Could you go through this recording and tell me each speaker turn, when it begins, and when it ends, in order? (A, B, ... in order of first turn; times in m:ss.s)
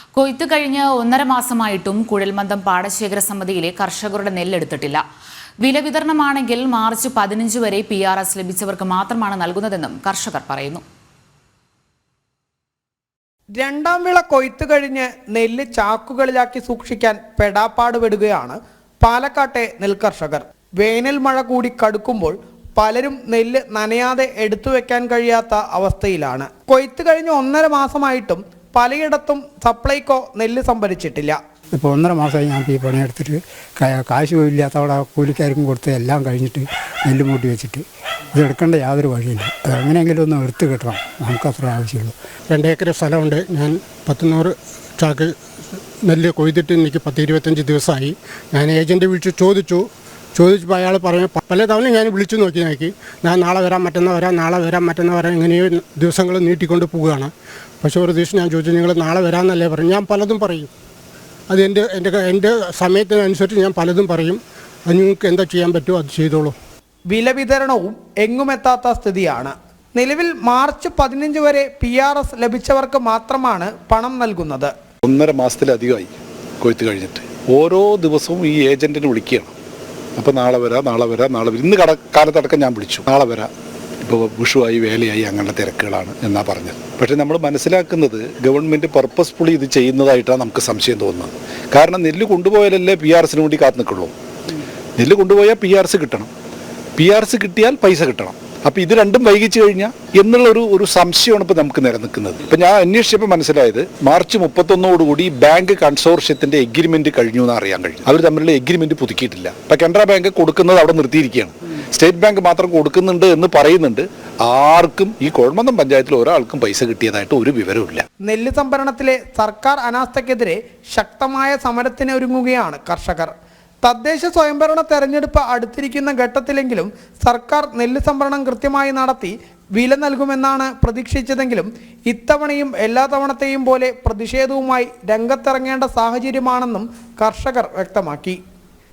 0:00.2-0:05.0 A
0:05.6-0:10.8 A
0:13.6-0:31.4 B
0:31.8-0:42.2 C
0:42.5-0:45.4 D
0:46.0-1:00.7 D
1:01.5-1:06.6 D
1:07.1-1:14.7 B
1:15.0-1:19.6 E
1:20.2-1:23.5 E
1:24.0-1:34.1 E
1:35.0-1:36.3 E
1:37.0-1:58.0 E
1:58.2-2:03.3 B
2:03.8-2:18.4 B